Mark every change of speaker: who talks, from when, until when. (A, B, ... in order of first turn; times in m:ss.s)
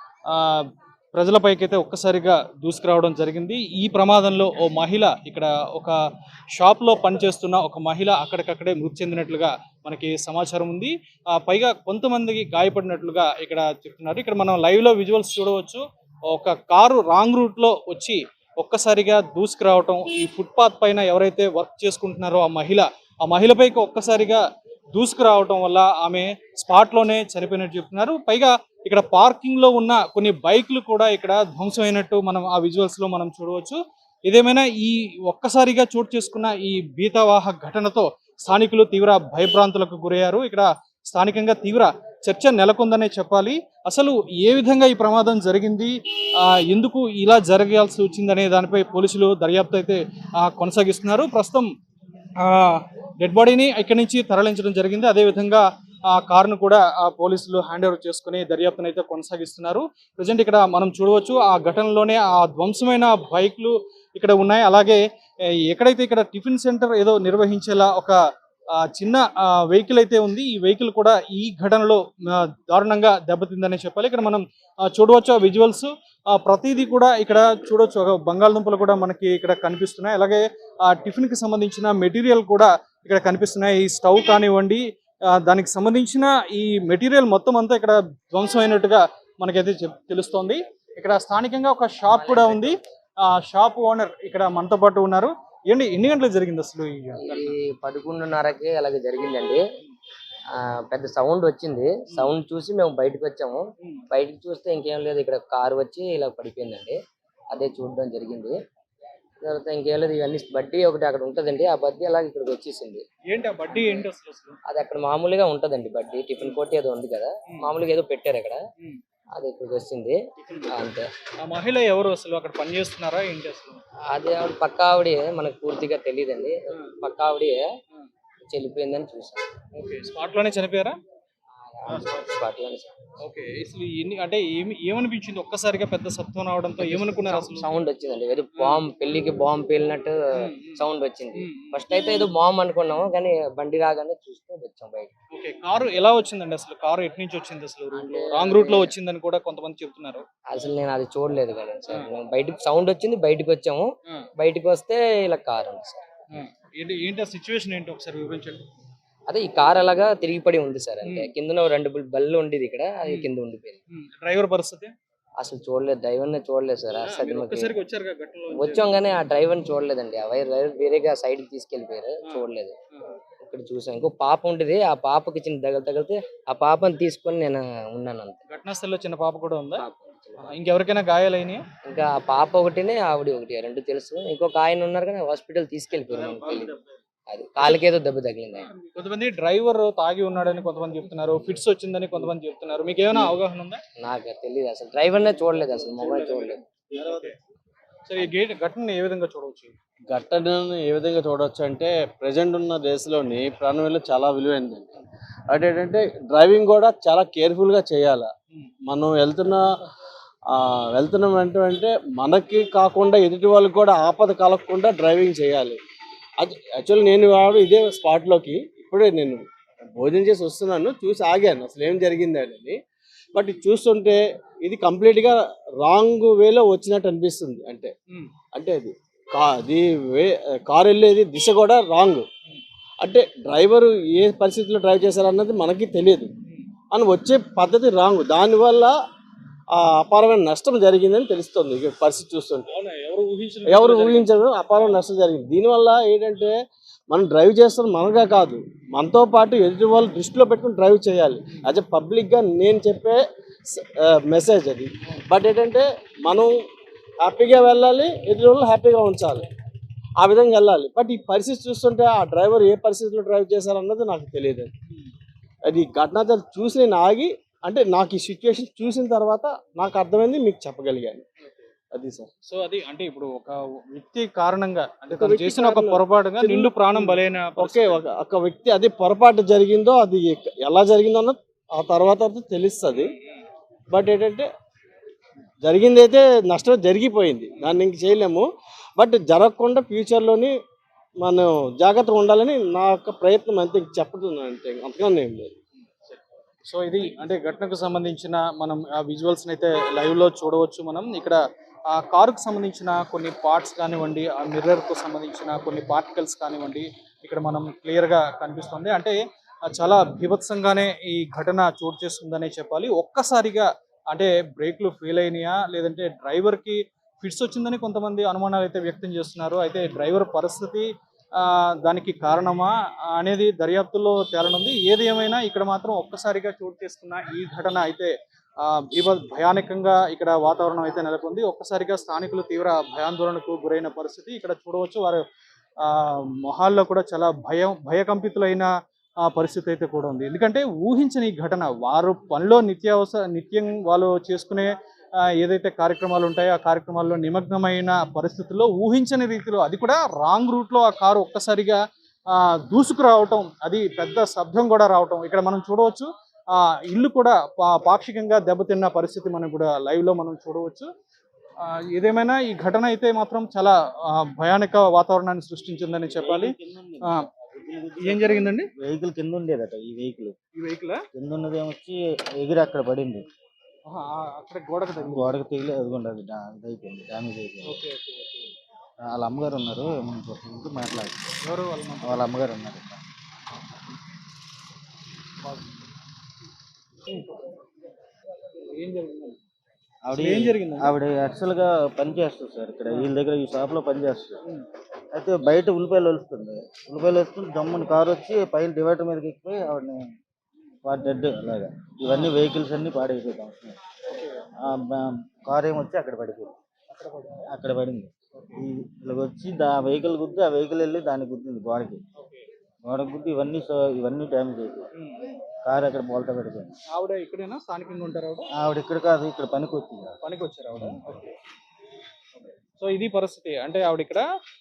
0:00.3-0:06.0 A
0:06.6-0:24.4 A
0:24.9-0:51.7 A
0:52.4-1:05.0 A
1:05.7-1:08.2 A
1:08.9-1:32.8 A
1:32.1-1:32.8 B
1:33.4-1:37.5 A
1:37.2-1:39.6 B
1:40.6-1:47.0 B
1:47.5-1:48.6 B
1:49.4-1:53.0 B
1:53.3-1:54.6 A
1:53.7-1:54.1 B
1:54.7-1:58.6 B
1:59.4-2:00.2 B
2:00.4-2:00.8 A
2:00.7-2:01.1 B
2:01.4-2:03.8 A
2:04.1-2:07.6 B
2:08.5-2:09.4 B
2:09.7-2:11.0 A
2:11.7-2:12.9 B
2:11.9-2:12.4 A
2:13.2-2:17.7 A
2:16.8-2:20.1 B
2:18.6-2:18.8 A
2:20.4-2:22.3 A
2:20.7-2:25.1 B
2:25.3-2:30.2 A
2:28.0-2:28.9 B
2:30.5-2:36.0 B
2:36.3-2:38.6 A
2:39.3-2:43.8 B
2:41.0-2:41.3 A
2:43.0-2:43.3 A
2:43.9-2:44.9 A
2:45.4-2:47.7 B
2:47.0-2:49.0 A
2:48.5-2:52.8 B
2:52.3-2:53.2 A
2:53.4-2:58.4 B
2:58.5-2:59.8 A
2:59.8-3:00.5 B
3:00.4-3:01.6 A
3:01.8-3:06.7 B
3:06.0-3:07.0 C
3:07.3-3:08.7 B
3:08.9-3:13.8 A
3:14.0-3:16.6 B
3:15.6-3:17.4 A
3:18.1-3:19.7 A
3:20.1-3:24.9 D
3:25.5-3:28.3 D
3:28.9-3:29.6 D
3:30.5-3:35.8 D
3:36.4-3:39.4 D
3:40.0-3:42.8 D
3:43.3-3:47.9 D
3:48.5-3:52.3 D
3:53.0-3:56.3 D
3:56.9-3:58.9 D
3:59.7-4:02.7 D
4:02.7-4:05.0 A
4:03.7-4:06.5 D
4:07.1-4:16.5 D
4:17.2-4:19.5 D
4:20.2-4:24.7 D
4:25.7-4:31.2 D
4:31.9-4:32.3 D
4:32.4-4:38.0 A
4:35.1-4:43.1 D
4:43.9-4:44.5 D
4:45.6-4:48.4 D
4:49.0-4:50.5 D
4:51.2-4:55.6 D
4:56.1-5:01.4 A
5:01.9-5:35.2 A
5:35.8-5:38.7 A
5:39.3-5:44.7 A
5:45.4-5:51.8 A
5:52.3-6:00.9 A
6:01.6-6:06.5 A
6:06.2-6:10.4 C
6:08.0-6:08.7 A
6:10.6-6:11.0 A
6:11.1-6:13.3 C
6:13.9-6:15.4 A
6:15.0-6:17.8 C
6:17.6-6:18.5 A
6:19.1-6:21.3 C
6:21.4-6:22.3 A
6:22.0-6:23.0 C
6:25.4-6:25.8 A
6:27.1-6:27.6 A
6:28.6-6:29.4 A
6:30.0-6:34.4 C
6:30.1-6:30.9 A
6:35.1-6:40.1 C
6:40.8-6:43.8 C
6:42.1-6:42.4 A
6:44.1-6:44.4 A
6:44.6-6:46.6 C
6:46.9-6:47.5 A
6:47.5-6:52.0 C
6:48.4-6:48.6 A
6:52.2-6:52.5 A
6:52.8-6:54.9 C
6:55.6-6:56.7 C
6:56.9-6:58.5 A
6:58.6-7:00.2 C
7:00.2-7:01.4 A
7:02.8-7:04.2 A